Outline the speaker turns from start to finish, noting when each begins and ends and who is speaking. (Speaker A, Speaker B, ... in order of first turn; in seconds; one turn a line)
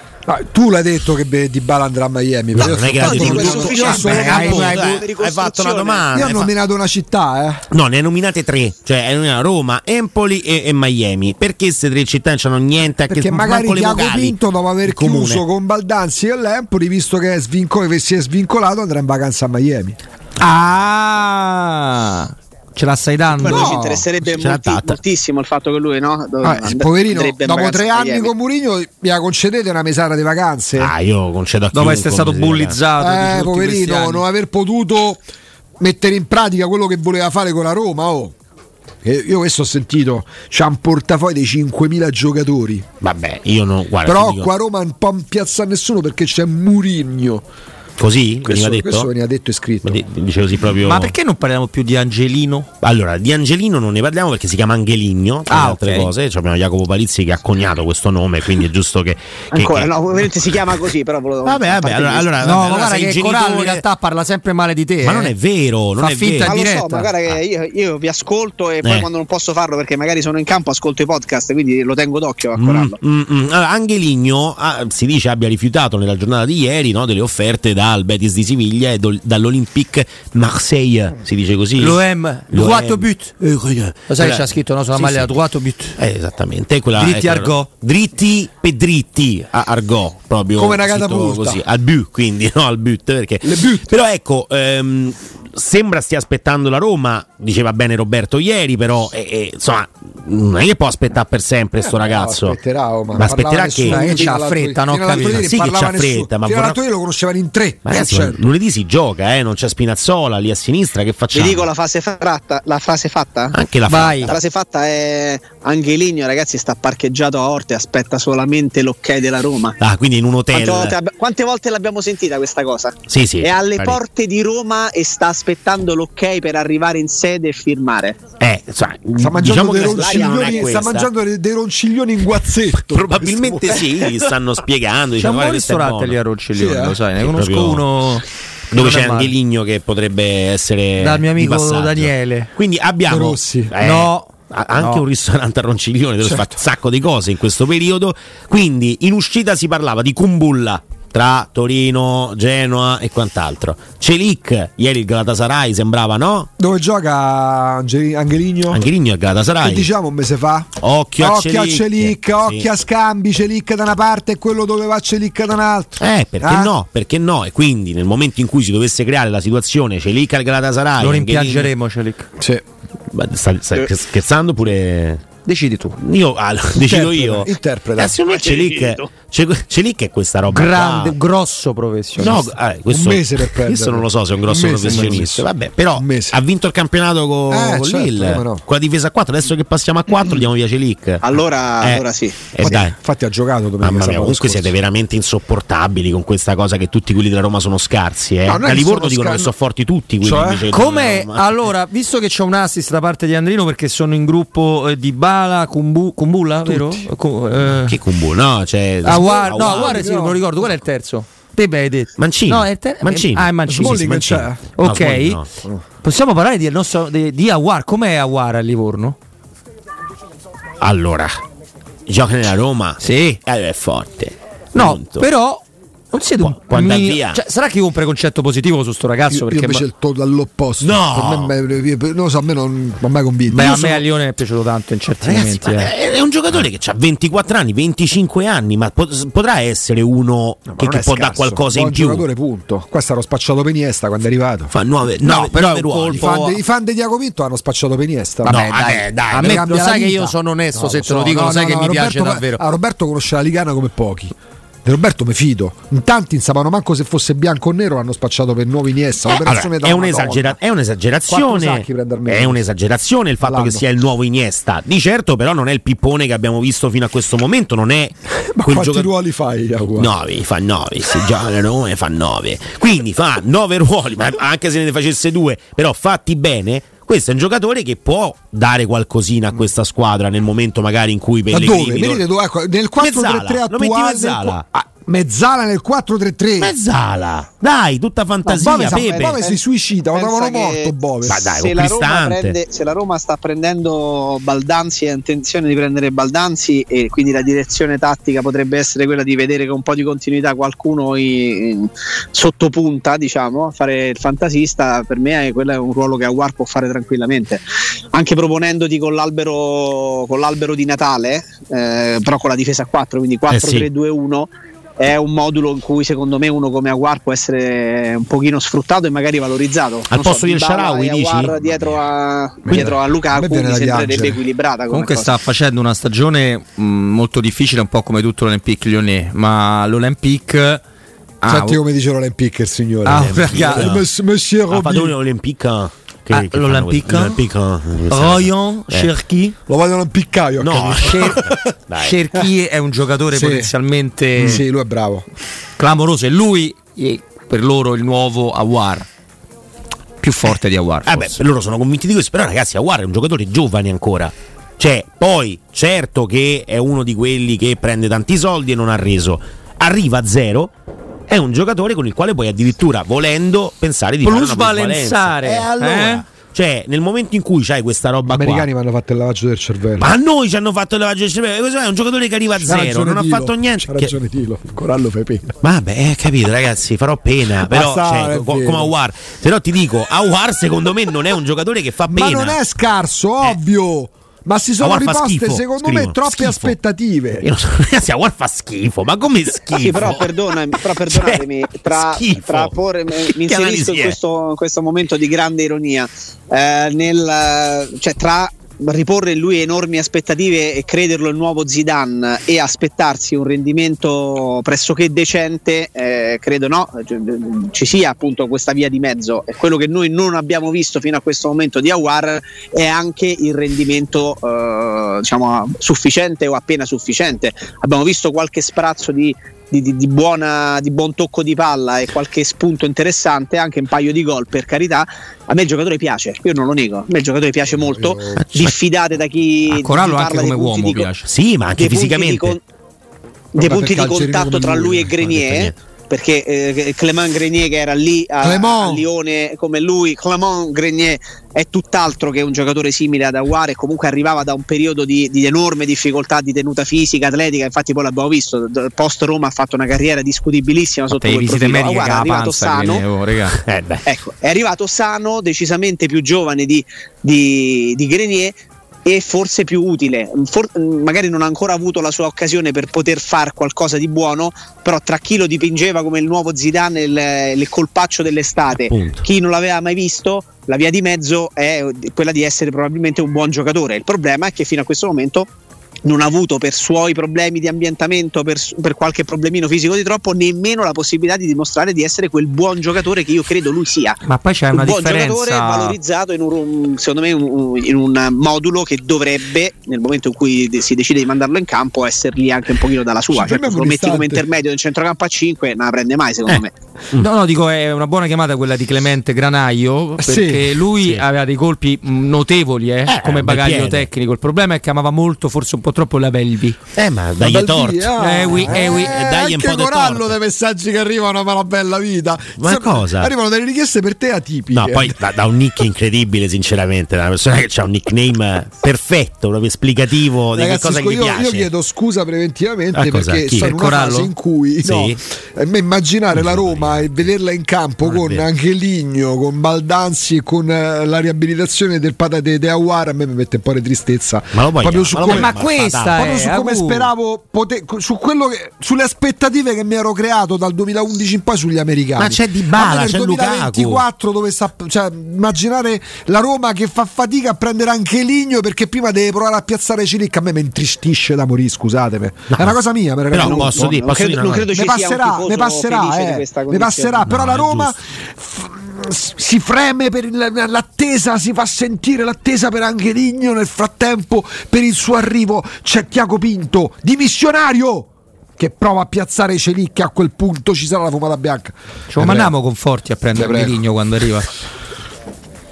Speaker A: 0.2-4.9
Speaker B: 2.5-6.5
Speaker C: 3.0-6.3
Speaker D: 3.0-5.0
Speaker A: 6.1-7.7
Speaker B: 7.7-15.4
Speaker A: 13.1-20.0
Speaker D: 20.4-23.8
Speaker C: 23.4-28.3
Speaker A: 23.4-24.1
Speaker B: 24.2-25.0
Speaker A: 26.4-30.9
Speaker B: 30.8-32.8
Speaker D: 31.7-34.2
Speaker A: 33.0-35.2
Speaker A: 35.8-38.3
Speaker A: 39.0-42.9
Speaker B: 43.0-44.5
Speaker A: 44.0-47.4
Speaker B: 48.0-49.1
Speaker A: 48.4-50.0
Speaker B: 49.8-51.1
Speaker D: 50.8-52.7
Speaker B: 52.8-60.9
Speaker D: 55.5-56.1
Speaker C: 59.5-62.6
Speaker B: 61.4-63.8
Speaker D: 62.4-65.3
Speaker B: 65.0-66.5
Speaker D: 66.0-67.1
Speaker C: 66.4-73.0
Speaker B: 68.8-69.1
Speaker B: 72.5-82.0
Speaker D: 81.8-83.3
Speaker B: 82.5-85.3
Speaker D: 84.1-86.0
Speaker B: 86.0-102.6
Speaker D: 87.0-87.7
Speaker A: 90.5-91.6
Speaker A: 93.4-94.0
Speaker A: 101.8-108.5
Speaker B: 103.1-104.2
Speaker D: 103.8-105.5
Speaker B: 105.1-106.8
Speaker B: 107.8-111.7
Speaker C: 111.3-113.6
Speaker B: 113.5-114.3
Speaker D: 113.9-114.3
Speaker C: 114.2-119.8
Speaker B: 119.8-120.9
Speaker C: 120.5-128.2
Speaker B: 123.1-124.0
Speaker B: 128.4-131.1
Speaker A: 129.2-133.9
Speaker C: 129.7-130.9
Speaker B: 132.8-136.2
Speaker D: 135.2-139.3
Speaker A: 136.5-137.0
Speaker B: 137.2-137.9
Speaker B: 138.7-156.5
Speaker D: 141.0-142.5
Speaker A: 143.1-143.7
Speaker D: 143.8-145.0
Speaker A: 146.2-146.5
Speaker A: 156.6-158.8
Speaker B: 158.7-159.9
Speaker A: 159.6-166.7
Speaker B: 160.8-162.7
Speaker B: 166.0-171.7
Speaker D: 171.0-172.3
Speaker B: 173.1-175.2
Speaker D: 175.4-176.0
Speaker B: 176.0-181.2
Speaker A: 176.7-178.2
Speaker C: 178.2-179.1
Speaker D: 180.5-182.5
Speaker B: 182.2-192.9
Speaker A: 182.9-186.4
Speaker A: 187.5-188.6
Speaker C: 191.2-192.4
Speaker A: 192.6-194.7
Speaker B: 193.8-201.6
Speaker A: 198.4-199.5
Speaker A: 200.2-200.7
Speaker D: 200.7-208.0
Speaker A: 206.7-207.1
Speaker B: 207.8-210.0
Speaker A: 209.0-210.5
Speaker D: 209.0-214.2
Speaker B: 212.2-215.4
Speaker A: 213.7-214.6
Speaker D: 214.8-215.4
Speaker D: 216.0-219.2
Speaker B: 220.8-221.4
Speaker B: 222.1-225.3
Speaker D: 223.0-223.4
Speaker D: 224.7-229.8
Speaker B: 226.4-227.4
Speaker A: 229.3-234.0
Speaker B: 230.8-231.5
Speaker D: 233.5-235.9
Speaker B: 235.2-242.2
Speaker A: 240.7-244.7
Speaker B: 244.7-246.4
Speaker D: 245.2-246.5
Speaker A: 246.1-248.6
Speaker D: 248.4-252.6
Speaker B: 248.5-249.7
Speaker A: 249.3-260.6
Speaker B: 259.3-269.1
Speaker A: 261.3-262.6
Speaker A: 263.4-263.8
Speaker A: 268.5-270.1
Speaker B: 270.0-282.2
Speaker A: 281.5-286.7
Speaker B: 283.0-284.6
Speaker B: 286.6-289.4
Speaker C: 288.4-289.6
Speaker A: 288.5-291.5
Speaker C: 290.1-325.3
Speaker B: 291.2-292.6
Speaker B: 313.5-313.9
Speaker B: 320.1-322.0
Speaker A: 322.6-324.4
Speaker D: 324.9-330.8
Speaker D: 331.4-331.8
Speaker A: 331.4-335.1
Speaker D: 333.0-333.9
Speaker B: 333.1-334.1
Speaker B: 334.7-339.1
Speaker D: 336.3-337.4
Speaker D: 338.1-339.6
Speaker A: 339.7-341.7
Speaker B: 340.6-342.2
Speaker D: 341.0-341.4
Speaker D: 341.9-344.6
Speaker A: 343.3-343.7
Speaker A: 344.4-345.2
Speaker D: 345.8-349.1
Speaker D: 350.2-351.4
Speaker B: 351.1-360.7
Speaker B: 361.3-368.7
Speaker D: 364.2-366.2
Speaker A: 368.3-370.1
Speaker B: 370.0-374.1
Speaker A: 372.6-375.5
Speaker B: 375.6-382.6
Speaker A: 377.6-378.9
Speaker A: 382.1-387.4
Speaker B: 384.8-386.8
Speaker B: 387.4-394.2
Speaker C: 389.8-431.1
Speaker A: 427.7-428.4
Speaker B: 428.4-428.8
Speaker D: 429.7-431.3
Speaker B: 431.2-432.6
Speaker C: 431.8-432.6
Speaker C: 433.5-453.0
Speaker A: 433.5-435.2
Speaker B: 435.2-435.7
Speaker A: 438.4-439.1
Speaker D: 451.1-453.6
Speaker B: 453.5-454.1
Speaker C: 454.0-475.5
Speaker B: 468.7-469.2
Speaker C: 476.0-496.7
Speaker D: 484.2-485.9
Speaker A: 493.3-494.4
Speaker B: 496.5-497.3
Speaker D: 497.1-506.8
Speaker A: 500.2-500.8
Speaker B: 500.9-501.2
Speaker B: 503.1-504.1
Speaker B: 506.9-510.3
Speaker A: 507.4-515.2
Speaker D: 508.2-509.2
Speaker B: 512.6-513.3
Speaker B: 514.7-521.7
Speaker A: 520.5-535.6
Speaker B: 522.9-523.7
Speaker D: 523.6-524.3
Speaker B: 524.8-525.2
Speaker B: 526.3-527.2
Speaker B: 528.0-528.4
Speaker B: 534.5-536.2
Speaker D: 535.1-537.1
Speaker A: 536.1-554.0
Speaker B: 542.2-544.0
Speaker B: 552.5-552.8
Speaker B: 553.3-554.7
Speaker C: 553.4-557.2
Speaker A: 554.7-572.5
Speaker B: 557.2-558.0
Speaker D: 572.1-574.5
Speaker A: 573.3-573.8